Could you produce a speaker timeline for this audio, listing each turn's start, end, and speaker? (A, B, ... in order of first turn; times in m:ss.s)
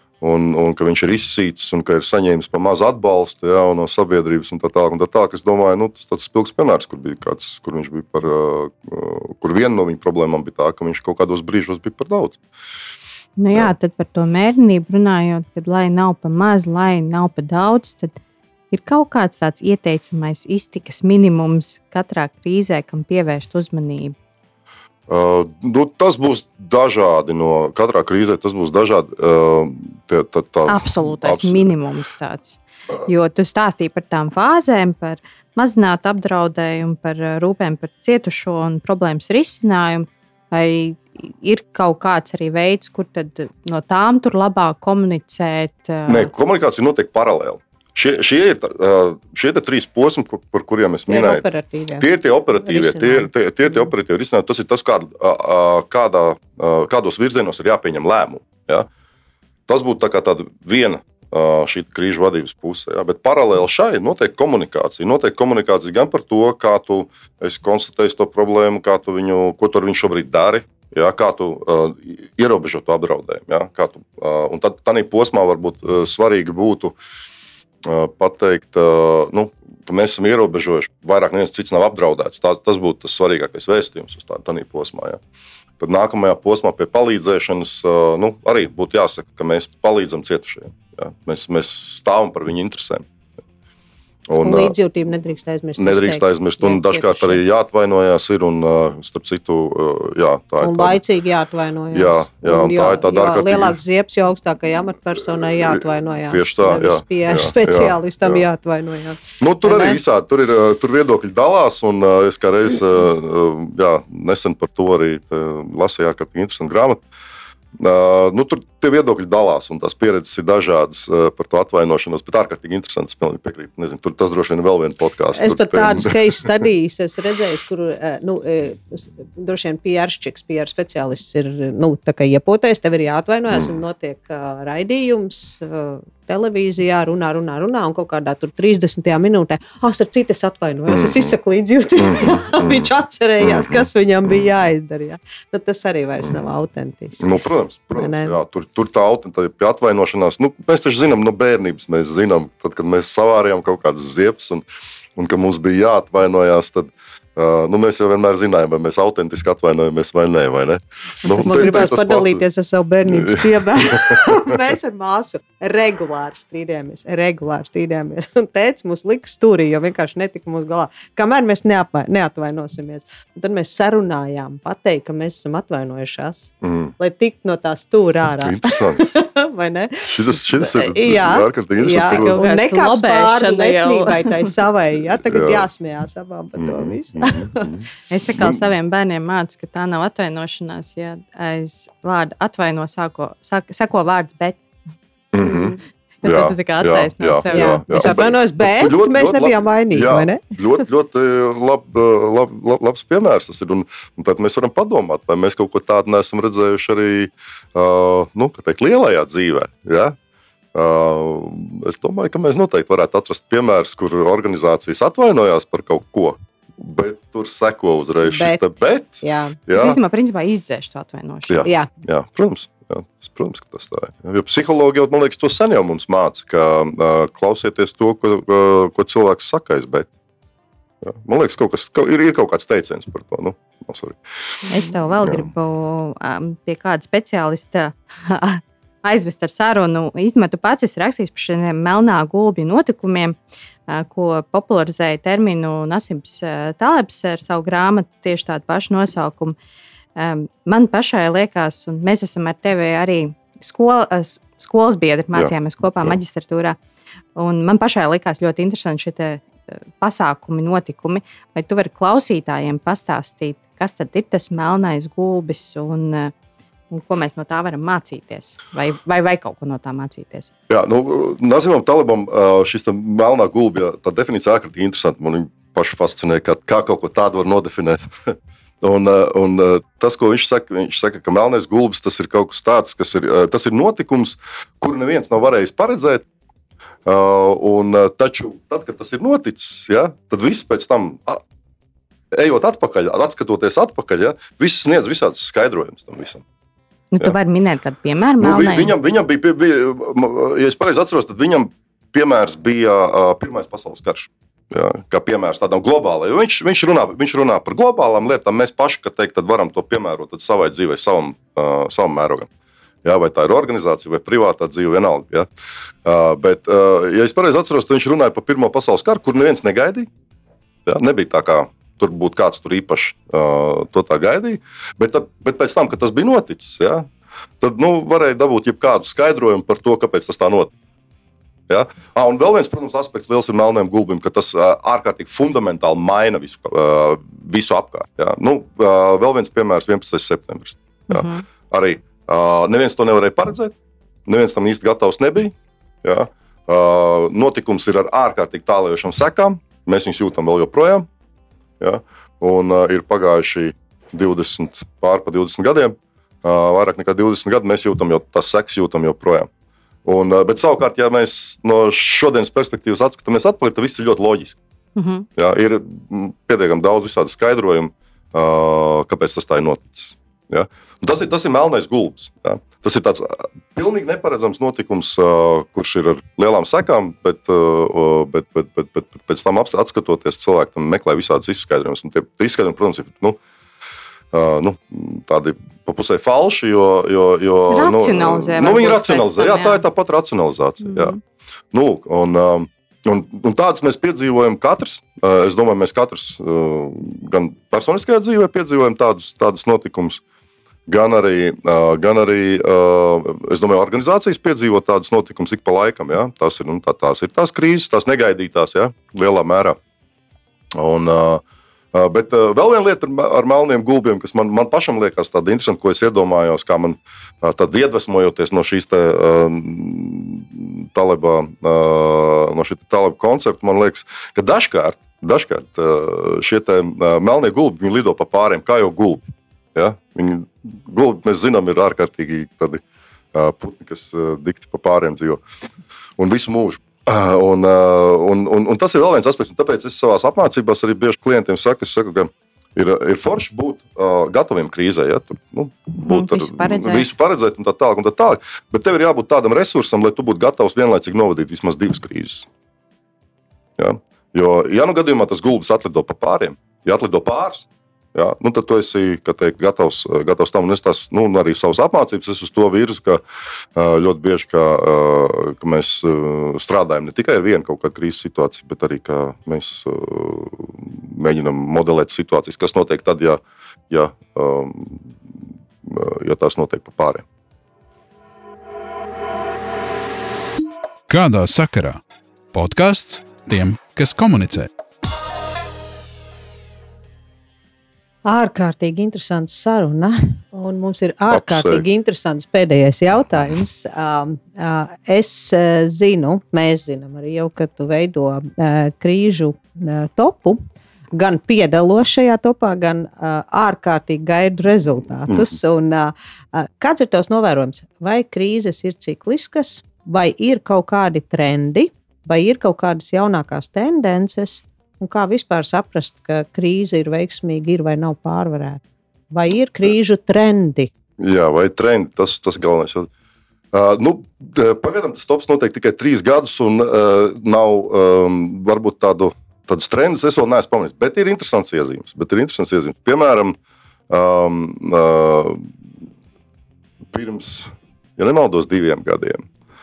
0:00.2-0:12.4 A
0:13.4-0:18.2 B
0:18.7-0:24.2 B
0:25.1-0:31.7 A
0:30.6-0:46.3 B
0:46.1-0:51.4 A
0:51.1-0:52.1 C
0:52.0-0:58.9 A
0:52.6-0:53.3 C
0:59.7-1:17.0 A
1:17.8-1:25.2 A
1:25.8-1:33.0 A
1:34.3-1:34.7 A
1:34.4-1:37.4 C
1:35.8-1:41.0 A
1:40.6-1:50.0 C
1:41.9-1:43.8 A
1:46.3-1:48.4 A
1:49.4-1:57.0 A
1:57.8-2:06.6 A
2:05.3-2:27.2 C
2:13.5-2:13.8 A
2:20.9-2:21.3 A
2:22.0-2:22.9 A
2:23.4-2:23.8 A
2:27.2-2:34.6 A
2:28.0-2:28.3 C
2:35.2-2:42.4 A
2:41.2-3:07.7 C
2:43.0-2:44.5 A
2:56.6-2:56.9 A
2:58.4-2:59.1 A
3:00.1-3:02.3 A
3:02.1-3:04.5 B
3:05.2-3:05.6 A
3:06.6-3:07.9 A
3:08.1-3:14.6 B
3:15.3-3:30.2 A
3:16.2-3:18.2 B
3:17.5-3:20.4 C
3:30.7-3:40.0 A
3:38.2-3:38.7 C
3:39.2-3:39.6 C
3:39.7-3:41.7 B
3:41.5-3:50.1 A
3:51.0-3:54.2 A
3:54.7-4:03.4 B
4:03.9-4:09.6 B
4:10.2-4:16.8 B
4:15.3-4:16.2 A
4:17.3-4:19.4 B
4:20.0-4:26.3 B
4:26.9-4:30.5 B
4:30.7-4:46.2 A
4:47.0-4:51.4 A
4:52.3-4:56.4 A
4:57.1-4:58.9 B
4:58.4-5:12.5 A
5:13.0-5:15.5 A
5:16.0-5:20.1 A
5:20.8-5:27.1 A
5:27.6-5:30.7 A
5:31.7-5:43.7 A
5:41.1-5:41.4 B
5:44.2-5:51.1 A
5:51.8-5:59.5 A
6:00.0-6:04.6 A
6:05.0-6:05.3 B
6:05.4-6:23.4 A
6:24.3-6:31.2 A
6:27.7-6:29.8 B
6:31.7-6:40.2 A
6:40.9-6:49.8 A
6:50.7-7:15.4 A
7:16.2-7:32.5 A
7:26.1-7:27.1 B
7:33.8-7:43.2 A
7:43.7-7:55.1 A
7:55.8-7:57.2 A
8:01.1-8:02.0 D
8:02.5-8:04.7 D
8:08.2-8:20.6 C
8:11.3-8:11.8 A
8:21.1-8:40.9 C
8:41.2-8:43.1 A
8:43.7-8:53.6 A
8:54.1-8:55.7 A
8:57.1-8:59.4 A